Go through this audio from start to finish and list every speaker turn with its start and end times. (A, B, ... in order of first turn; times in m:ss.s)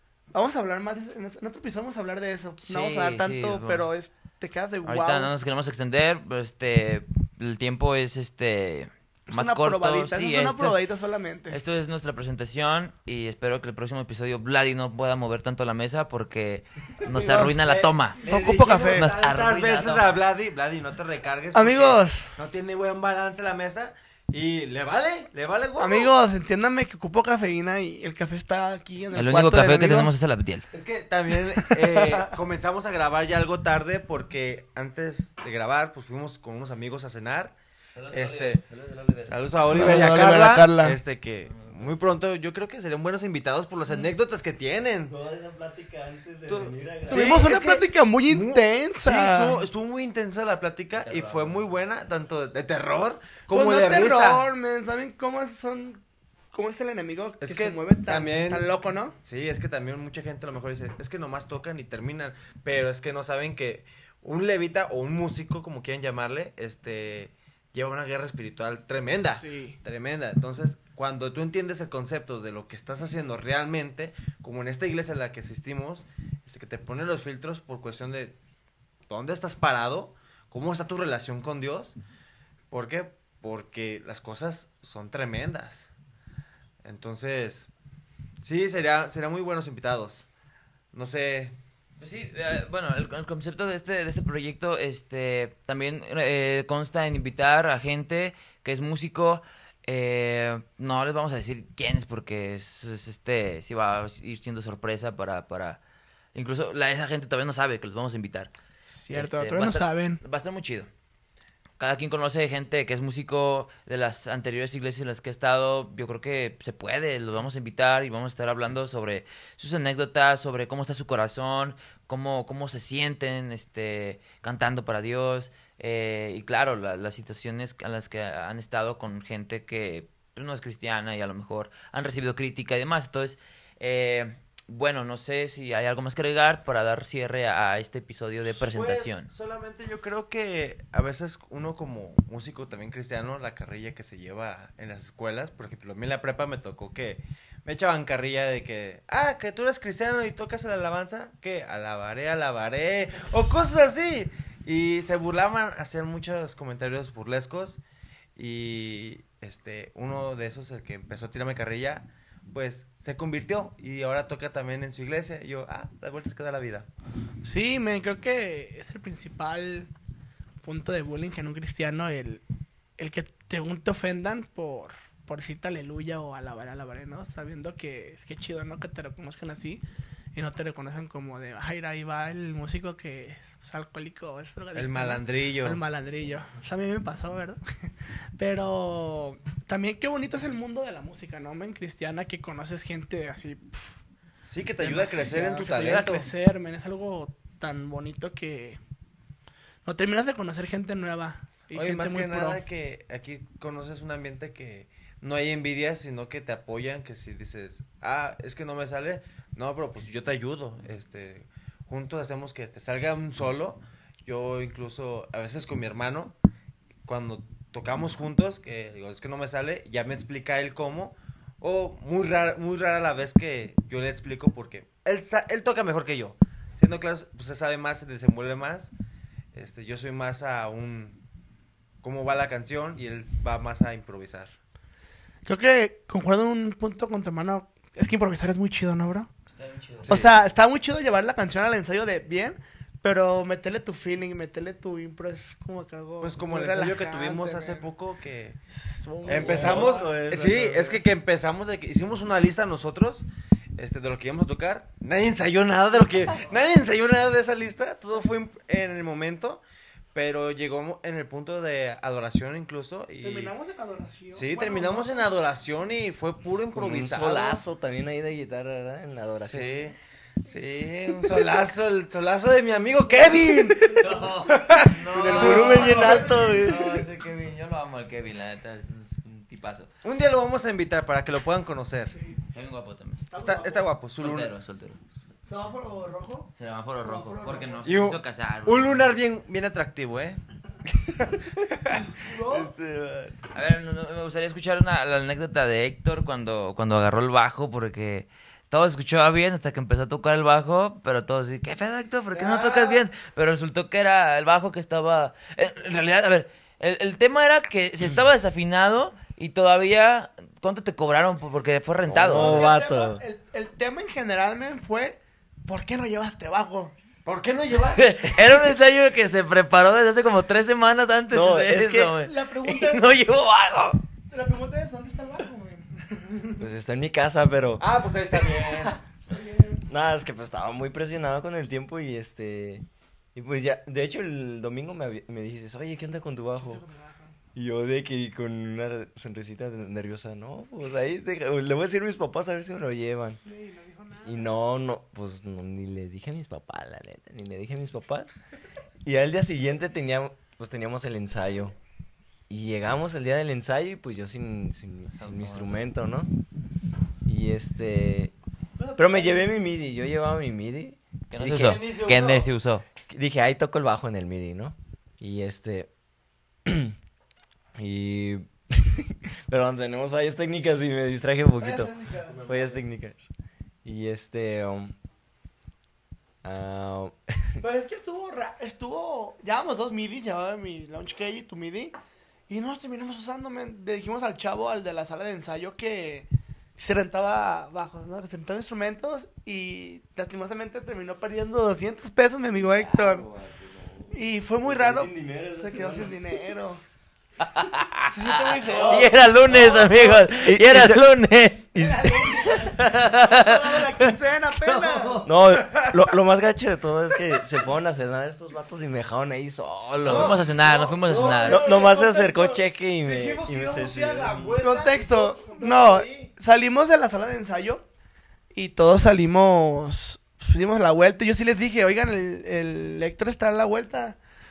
0:00.3-0:05.3 A
0:02.6-0:03.9 B
0:04.8-0:10.8 B
0:09.3-0:11.6 A
0:11.5-0:18.3 B
0:17.1-0:26.1 C
0:17.1-0:17.5 A
0:18.3-0:19.1 A
0:18.9-0:20.2 B
0:21.5-0:22.3 A
0:25.8-0:30.1 A
0:29.1-0:30.6 B
0:30.7-0:37.5 C
0:31.5-0:32.2 A
0:37.9-0:40.0 B
0:38.1-0:38.6 C
0:39.2-0:45.1 C
0:39.6-0:41.0 A
0:41.4-0:42.0 B
0:45.1-0:47.5 D
0:46.5-0:54.5 C
0:47.1-0:49.6 A
0:51.0-0:51.7 B
0:53.5-0:56.0 A
0:56.5-0:59.1 A
0:57.4-0:58.7 C
0:59.2-1:18.4 C
1:09.4-1:09.8 A
1:19.1-1:22.0 C
1:22.7-1:25.9 C
1:26.8-1:27.7 C
1:28.4-1:30.3 C
1:30.9-1:31.6 C
1:32.0-1:45.8 B
1:46.4-1:48.5 B
1:48.9-1:50.2 A
1:49.1-1:50.9 B
1:51.8-2:19.3 B
2:18.4-2:37.8 C
2:38.4-2:46.9 C
2:47.4-2:49.9 A
2:50.6-2:52.4 A
2:53.0-2:59.8 A
3:00.4-3:14.0 A
3:04.7-3:05.8 C
3:14.5-3:16.3 C
3:14.8-3:18.8 A
3:19.8-3:22.6 A
3:21.7-3:36.4 C
3:37.0-3:48.9 C
3:49.5-3:51.2 C
3:52.0-3:54.5 C
3:55.4-3:59.3 A
3:59.5-4:00.1 B
4:00.0-4:00.4 C
4:00.1-4:07.9 A
4:06.2-4:08.6 C
4:08.7-4:10.1 A
4:09.2-4:19.6 C
4:09.2-4:11.0 D
4:20.1-4:23.5 C
4:23.2-4:25.3 A
4:24.3-4:27.6 C
4:26.7-4:29.9 D
4:29.4-4:35.9 C
4:33.9-4:39.9 B
4:35.1-4:36.5 A
4:35.1-4:37.1 D
4:40.0-4:42.2 C
4:42.5-4:43.2 B
4:43.3-4:43.8 A
4:43.4-4:44.5 C
4:44.2-4:45.0 B
4:45.4-4:47.9 A
4:46.5-4:49.1 B
4:47.8-4:50.4 C
4:51.0-4:51.3 C
4:52.2-4:52.7 A
4:52.4-4:53.4 D
4:53.5-5:12.6 B
5:02.3-5:03.0 C
5:12.1-5:13.2 D
5:12.3-5:16.9 A
5:17.2-5:18.6 C
5:17.9-5:24.0 B
5:21.3-5:22.1 D
5:22.2-5:23.1 A
5:24.3-5:26.6 A
5:26.6-5:27.9 D
5:27.8-5:29.0 C
5:29.2-5:29.8 A
5:29.9-5:36.8 D
5:36.6-5:37.3 A
5:37.6-5:43.4 D
5:43.4-5:44.5 A
5:44.2-5:48.3 D
5:49.0-5:51.7 D
5:52.5-5:56.3 D
5:55.1-5:55.9 B
5:57.2-5:58.3 D
5:58.8-5:59.4 A
5:59.0-6:01.8 D
6:01.3-6:02.8 B
6:01.4-6:02.5 C
6:03.1-6:05.9 D
6:06.6-6:06.9 D
6:07.8-6:13.3 D
6:11.6-6:12.4 A
6:12.4-6:12.7 C
6:13.8-6:14.9 D
6:16.4-6:17.6 D
6:17.6-6:21.9 A
6:22.5-6:33.2 A
6:32.6-6:36.4 D
6:34.1-6:36.8 A
6:37.4-6:38.3 B
6:38.1-6:39.1 A
6:38.6-6:41.0 D
6:38.8-6:45.3 B
6:41.7-6:42.7 D
6:41.8-6:45.4 A
6:45.2-6:50.4 D
6:50.0-6:51.6 B
6:50.0-6:56.3 C
6:51.4-6:54.6 D
6:54.6-6:57.8 A
6:58.5-7:04.2 A